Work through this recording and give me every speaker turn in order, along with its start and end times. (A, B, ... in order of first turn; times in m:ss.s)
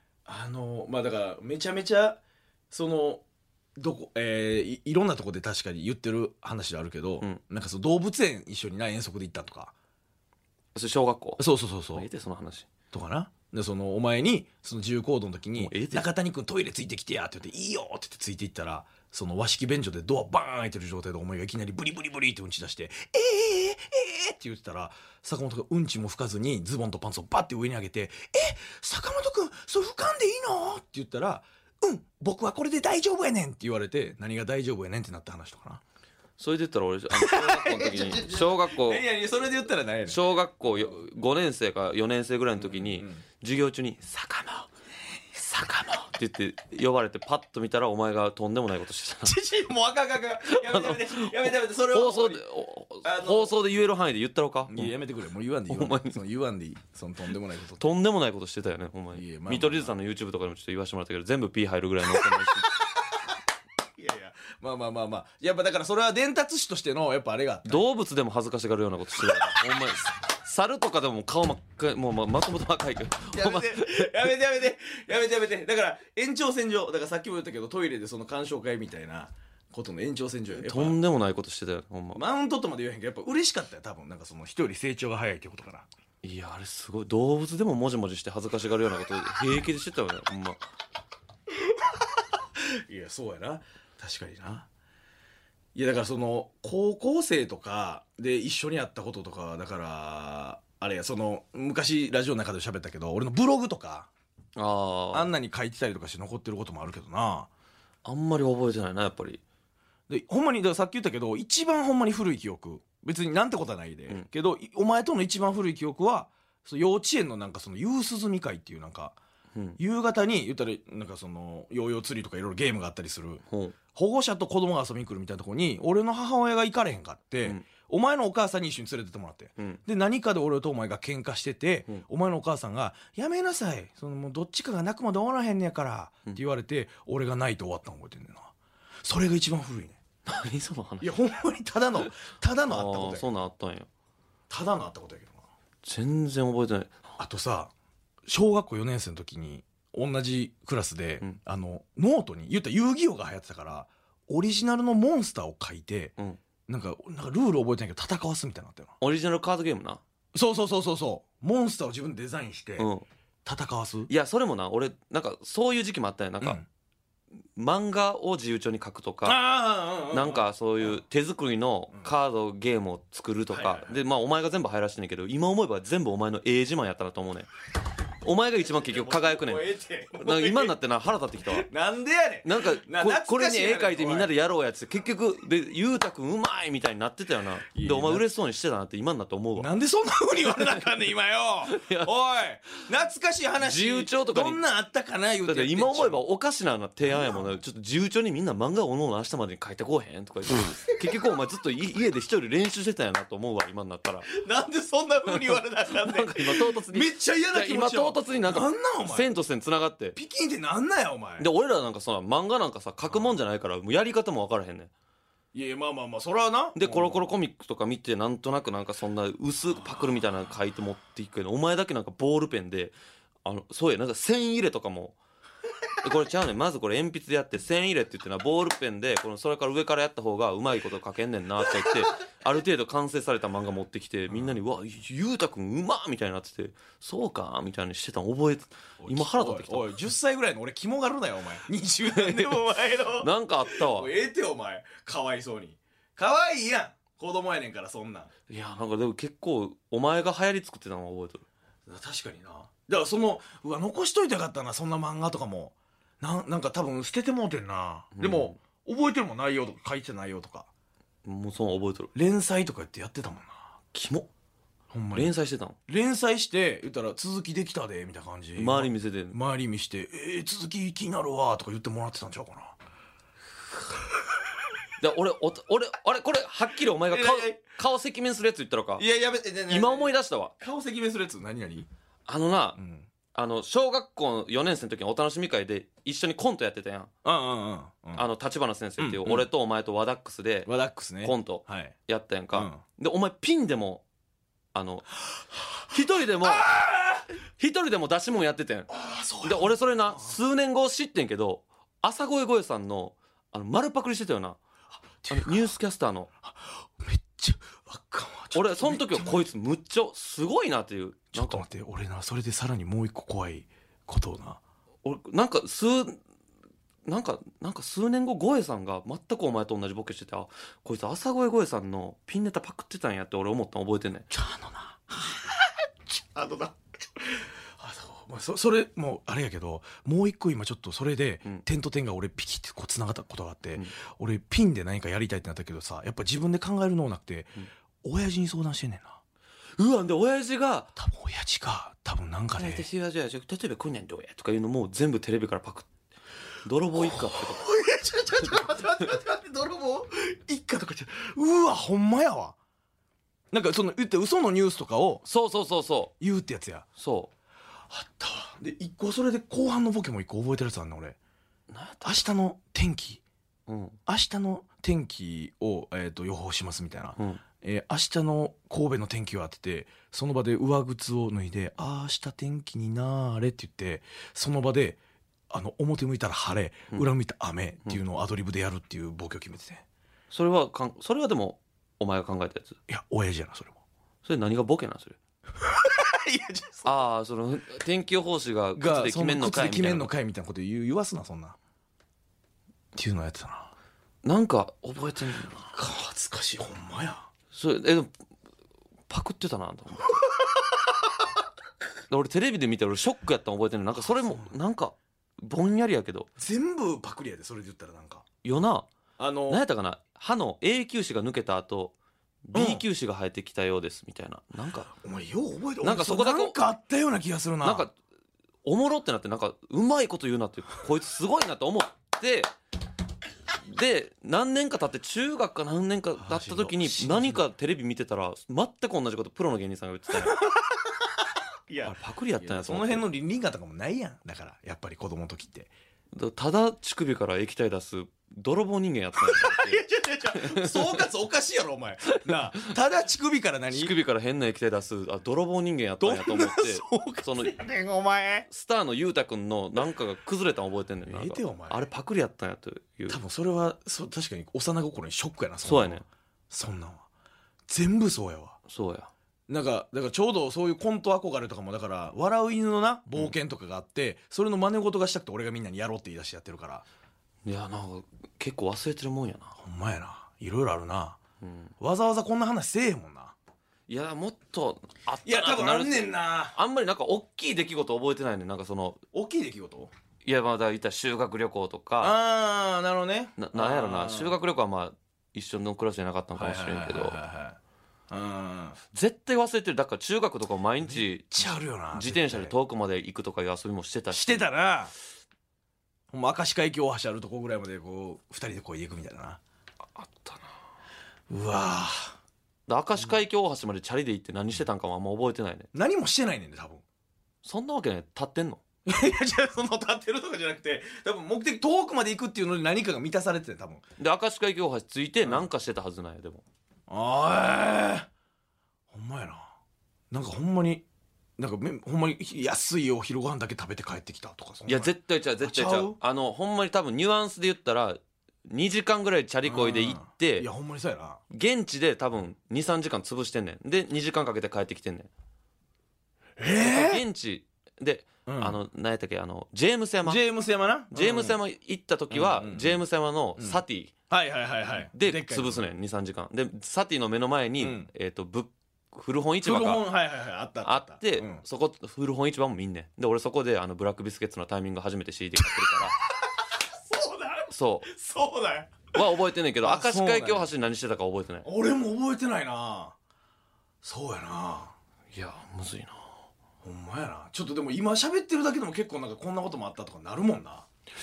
0:00.3-0:02.2 A
0:02.7-0:03.2 A
0:03.8-0:09.7 A
0:10.8-0:12.7 B
0:11.4-0:12.1 A
0:12.9-0:35.8 A
0:15.6-0:16.1 B
0:36.4-0:39.1 B
0:37.1-0:40.2 A
0:40.1-0:44.7 B
0:42.6-0:43.2 A
0:45.3-0:46.1 A
0:45.7-0:49.4 B
0:49.2-0:52.5 A
0:50.5-0:55.0 B
0:53.0-0:53.6 A
0:54.7-0:57.9 A
0:55.7-0:56.2 B
0:57.8-1:02.7 B
0:59.1-1:00.0 A
1:04.0-1:07.9 A
1:07.7-1:14.3 B
1:09.3-1:09.6 A
1:13.3-1:21.0 A
1:20.6-1:22.2 B
1:22.1-1:25.9 A
1:26.2-1:30.6 B
1:32.6-1:34.7 A
1:35.8-1:44.1 A
1:44.6-1:45.4 B
1:45.1-1:47.5 A
1:48.0-1:49.4 B
1:50.1-1:59.2 A
1:59.5-1:59.8 B
1:59.8-2:18.5 A
2:03.5-2:03.8 B
2:19.0-2:20.0 A
2:20.2-2:21.2 B
2:21.0-2:23.3 A
2:22.7-2:23.9 B
2:24.5-2:25.4 A
2:25.8-2:27.0 B
2:27.2-2:27.7 A
2:28.3-2:36.1 A
2:36.7-2:39.0 A
2:39.0-2:40.0 B
2:40.3-2:42.9 A
2:42.8-2:43.1 B
2:43.4-2:44.1 A
2:44.1-2:46.6 B
2:46.4-2:46.7 A
2:47.6-2:49.4 B
2:49.2-2:51.0 A
2:50.1-2:57.5 B
2:53.5-2:54.0 A
2:58.2-3:01.7 B
2:58.6-3:00.8 A
3:01.5-3:04.3 A
3:02.4-3:09.7 B
3:07.7-3:08.2 A
3:09.6-3:16.2 A
3:11.7-3:12.1 B
3:13.6-3:14.6 B
3:15.5-3:24.3 B
3:17.1-3:17.6 A
3:24.3-3:29.3 A
3:25.3-3:30.2 B
3:30.2-3:31.5 A
3:31.4-3:34.9 B
3:33.1-3:33.4 A
3:35.5-3:37.3 A
3:36.8-3:45.2 B
3:39.9-3:40.2 A
3:46.0-4:00.0 B
3:54.3-3:54.6 A
3:59.0-4:08.3 A
4:02.1-4:02.6 B
4:03.2-4:04.1 B
4:08.5-4:11.4 B
4:11.9-4:20.7 A
4:18.2-4:18.6 B
4:21.2-4:22.1 B
4:22.1-4:23.7 A
4:23.9-4:24.3 B
4:24.9-4:25.3 A
4:25.1-4:25.8 B
4:25.9-4:32.8 A
4:28.6-4:29.4 B
4:35.0-4:39.0 B
4:37.1-4:37.6 A
4:39.0-4:41.9 A
4:39.7-4:40.5 B
4:42.3-4:42.8 B
4:42.8-4:43.1 A
4:43.3-4:47.1 B
4:47.2-4:48.3 A
4:48.2-4:50.7 B
4:49.0-4:49.5 A
4:50.7-4:52.0 A
4:51.2-4:54.0 B
4:52.5-4:52.8 A
4:54.7-4:55.1 B
4:55.9-4:56.8 B
4:56.4-4:57.3 A
4:57.6-5:04.6 B
4:58.9-5:00.4 A
5:05.2-5:05.7 A
5:05.3-5:06.3 B
5:06.4-5:09.5 A
5:08.5-5:11.6 B
5:11.3-5:14.6 A
5:15.0-5:16.2 B
5:17.0-5:24.3 B
5:24.3-5:39.2 A
5:39.8-5:40.9 B
5:41.0-5:42.9 A
5:42.6-5:45.9 B
5:46.6-5:47.7 B
5:47.0-5:52.6 A
5:53.5-5:55.2 A
5:55.2-5:56.1 B
5:56.2-5:56.9 A
5:57.0-5:57.3 B
5:57.9-6:01.2 A
6:01.7-6:02.2 B
6:02.0-6:03.2 A
6:03.7-6:04.0 B
6:04.1-6:19.8 A
6:07.2-6:07.4 B
6:20.3-6:22.8 B
6:22.9-6:23.8 A
6:24.2-6:25.2 B
6:25.6-6:27.1 A
6:26.9-6:30.1 B
6:28.8-6:31.6 A
6:33.0-6:33.7 A
6:34.2-6:35.7 B
6:35.6-6:37.3 A
6:37.5-6:38.1 B
6:39.1-6:40.2 B
6:42.1-6:46.3 B
6:44.0-6:44.5 A
6:46.4-6:48.2 A
6:48.4-6:48.9 B
6:49.2-6:49.6 A
6:49.5-6:54.9 B
6:52.5-6:52.8 A
6:54.9-6:57.9 A
6:55.8-6:56.6 B
6:57.6-6:57.9 B
6:58.6-7:02.5 B
7:03.7-7:10.4 B
7:06.2-7:07.4 A
7:10.2-7:11.1 A
7:11.7-7:15.7 A
7:11.8-7:13.1 B
7:16.1-7:21.0 B
7:19.2-7:23.9 A
7:23.7-7:27.6 B
7:26.0-7:28.5 A
7:28.5-7:33.2 B
7:31.1-7:31.9 A
7:33.1-7:37.1 A
7:35.6-7:36.0 B
7:37.7-7:38.6 A
7:38.7-7:39.1 B
7:39.5-7:46.8 A
7:47.4-7:49.6 B
7:49.6-7:51.2 A
7:51.4-7:51.7 B
7:51.8-7:53.4 A
7:53.9-7:59.0 B
7:55.2-7:56.6 A
7:59.1-7:59.9 A
8:00.2-8:02.2 B
8:02.0-8:04.4 A
8:03.4-8:07.2 B
8:06.4-8:07.6 A
8:08.1-8:08.8 A
8:08.9-8:14.5 B
8:10.8-8:12.6 A
8:14.1-8:14.9 A
8:16.1-8:19.4 A
8:20.0-8:20.5 B
8:21.3-8:22.2 A
8:22.7-8:25.7 B
8:25.7-8:26.8 A
8:27.4-8:28.6 B
8:28.9-8:33.8 A
8:34.0-8:36.4 B
8:36.9-8:38.1 A
8:38.9-8:39.6 A
8:40.1-8:40.8 A
8:41.4-8:46.0 A
8:44.7-8:50.5 B
8:49.4-8:51.2 A
8:51.3-8:55.1 B
8:56.4-8:57.0 A
8:56.6-9:00.2 B
8:58.3-8:58.6 A
9:00.0-9:01.4 A
9:00.9-9:03.9 B
9:02.1-9:02.8 A
9:03.4-9:05.7 A
9:04.9-9:09.8 B
9:07.6-9:07.9 A
9:09.4-9:11.4 A
9:10.6-9:16.0 B
9:16.8-9:19.0 A
9:17.5-9:17.9 B
9:18.9-9:21.5 B
9:19.6-9:20.5 A
9:21.4-9:23.0 A
9:23.8-9:24.8 A
9:25.1-9:26.1 B
9:26.6-9:30.7 A